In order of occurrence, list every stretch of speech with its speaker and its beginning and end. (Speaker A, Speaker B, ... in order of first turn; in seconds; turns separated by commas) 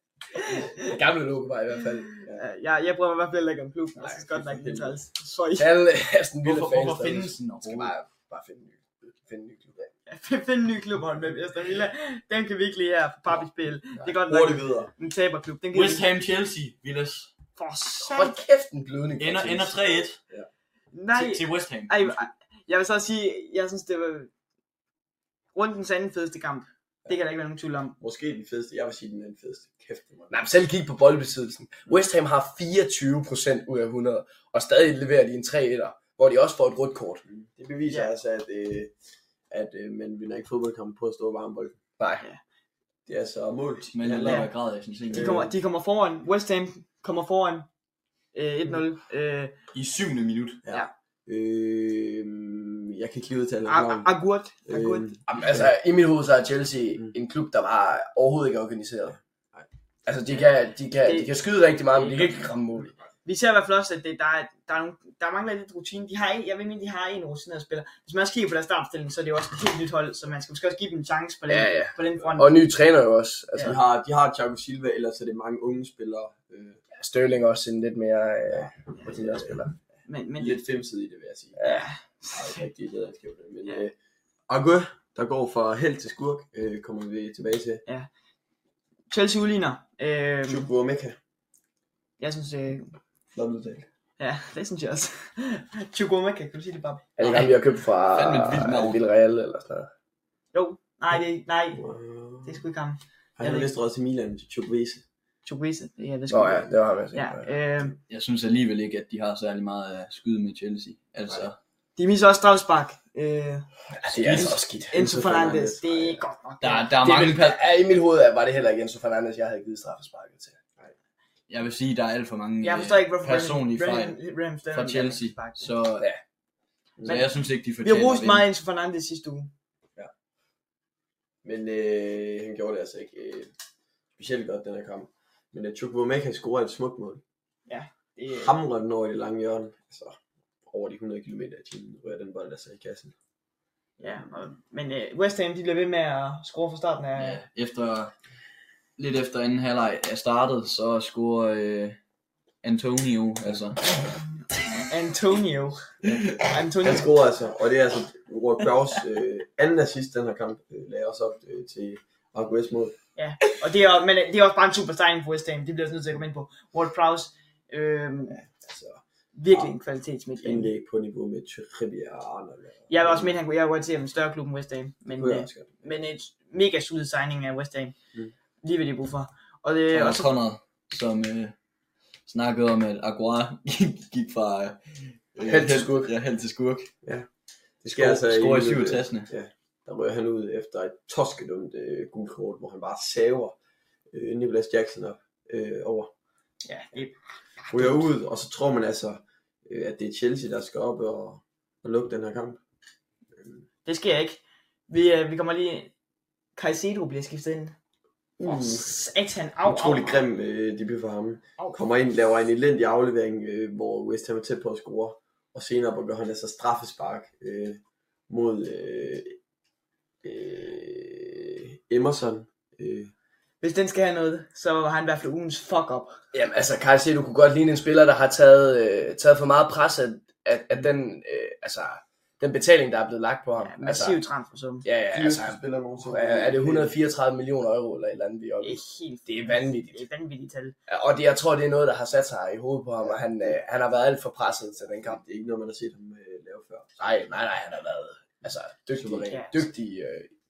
Speaker A: 0.3-0.9, Speaker B: 0.8-2.1, Speaker A: 2.3-5.7, Speaker C: 4.0-5.0, Speaker B: 5.6-9.9, Speaker D: 6.4-7.9, Speaker A: 10.1-16.1, Speaker C: 14.1-14.9, Speaker D: 15.7-17.3, Speaker A: 17.6-18.4, Speaker B: 18.0-20.1, Speaker D: 19.2-20.2, Speaker A: 20.9-24.3, Speaker D: 21.1-22.3, Speaker A: 25.6-28.0, Speaker C: 28.0-30.4, Speaker B: 30.3-37.2, Speaker C: 37.3-38.9, Speaker C: 39.5-41.8, Speaker B: 42.0-42.2, Speaker C: 43.1-44.5, Speaker D: 43.9-45.5, Speaker A: 44.2-44.5, Speaker C: 45.1-45.5, Speaker A: 45.1-47.7, Speaker A: 48.3-49.5, Speaker D: 49.7-50.6, Speaker C: 50.6-54.1, Speaker A: 53.7-55.1, Speaker C: 54.7-55.7, Speaker B: 55.3-59.2, Speaker B: 60.1-62.9, Speaker A: 61.0-61.4, Speaker A: 61.9-62.5, Speaker A: 63.2-72.5, Speaker B: 71.5-73.8, Speaker C: 73.6-76.8, Speaker B: 76.9-79.7, Speaker C: 78.5-79.7, Speaker A: 80.1-80.6, Speaker C: 80.4-81.6, Speaker B: 81.6-81.8, Speaker A: 81.6-82.6, Speaker C: 82.3-83.9, Speaker C: 84.5-87.8, Speaker A: 89.1-90.7, Speaker C: 90.5-91.2, Speaker A: 92.2-93.0, Speaker C: 93.3-93.9, Speaker A: 94.2-97.1, Speaker B: 97.2-99.9, Speaker D: 97.2-97.6, Speaker D: 98.1-99.0, Speaker A: 100.5-101.8, Speaker C: 101.8-102.6, Speaker A: 102.4-103.7, Speaker C: 103.4-105.0, Speaker A: 105.5-108.0, Speaker B: 106.3-107.5, Speaker D: 108.1-111.6, Speaker A: 112.0-117.0, Speaker B: 114.0-114.9, Speaker D: 114.2-114.5, Speaker C: 114.9-116.2, Speaker D: 116.6-117.6, Speaker B: 117.0-120.6, Speaker D: 121.5-124.2, Speaker A: 122.6-125.7, Speaker D: 124.7-126.1, Speaker D: 127.0-128.5, Speaker A: 127.8-129.5, Speaker C: 131.4-133.5, Speaker C: 134.2-137.2, Speaker A: 137.7-138.5, Speaker C: 138.3-143.1, Speaker A: 144.0-147.4, Speaker D: 147.2-148.1, Speaker D: 149.0-152.0, Speaker D: 152.6-153.9, Speaker A: 154.9-157.1, Speaker D: 156.0-156.3, Speaker C: 156.8-162.9, Speaker A: 163.2-168.4, Speaker C: 168.3-169.7, Speaker A: 169.3-170.7, Speaker C: 170.4-173.3, Speaker A: 172.9-178.0, Speaker C: 175.1-175.9, Speaker A: 178.6-180.3, Speaker D: 179.9-181.5, Speaker D: 182.3-186.9, Speaker B: 185.4-186.1, Speaker C: 187.8-193.6, Speaker D: 187.9-189.3, Speaker C: 194.1-196.1, Speaker A: 196.7-198.1, Speaker C: 197.7-202.6, Speaker C: 203.4-203.6, Speaker A: 203.8-205.9, Speaker A: 206.6-207.8, Speaker C: 208.4-208.9, Speaker A: 208.4-210.2, Speaker C: 209.7-219.4, Speaker C: 220.2-223.1, Speaker A: 223.6-226.2, Speaker B: 226.3-234.2, Speaker A: 233.6-234.9, Speaker B: 234.8-240.0, Speaker C: 235.1-236.9, Speaker A: 238.6-240.8, Speaker B: 240.9-245.2, Speaker C: 243.1-243.6, Speaker C: 245.0-247.0, Speaker B: 247.0-250.3, Speaker C: 249.0-249.3, Speaker A: 249.3-249.6